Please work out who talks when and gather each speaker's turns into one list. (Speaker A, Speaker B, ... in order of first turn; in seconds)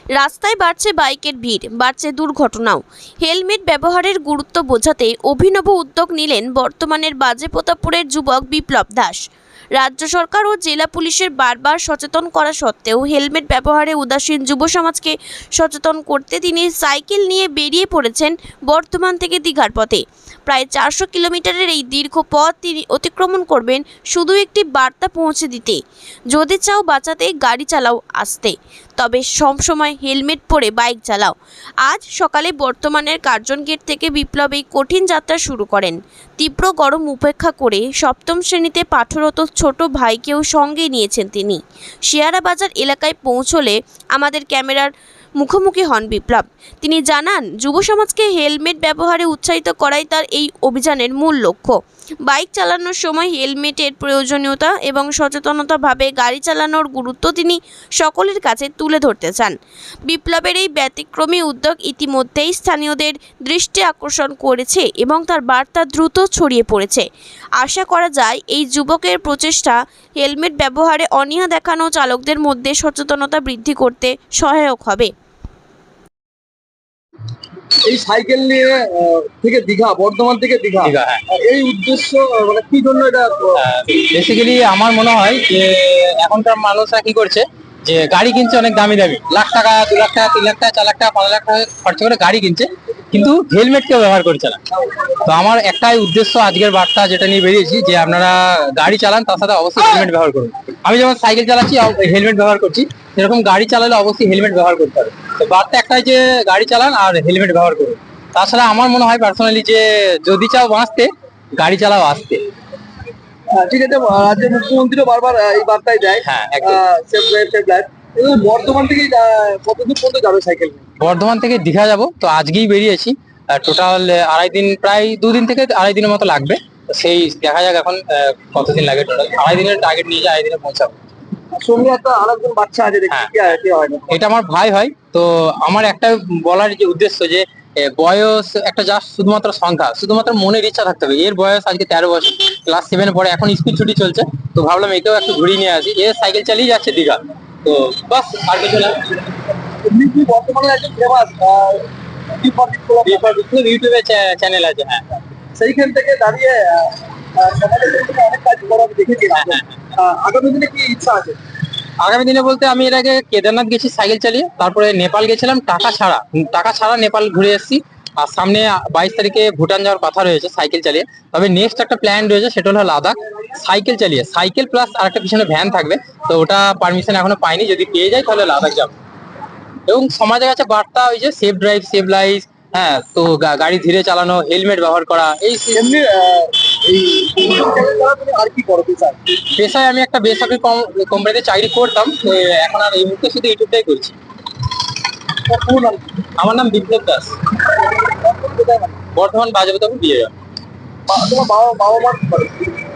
Speaker A: 0.2-9.2, 9.8-59.5, 60.1-67.0, 67.6-75.1
Speaker B: 77.8-83.6, 113.5-120.8, 131.6-134.2, 149.8-153.3, 155.6-161.4, 185.8-189.2, 195.5-196.1, 198.1-199.0, 201.1-202.7
Speaker C: 80.8-81.2, 83.6-94.6, 95.2-112.4, 116.2-116.8, 121.0-131.0, 134.1-149.0, 153.1-155.2, 159.3-159.8, 162.0-178.9, 179.9-185.9, 189.5-194.2, 196.4-197.3, 199.2-200.3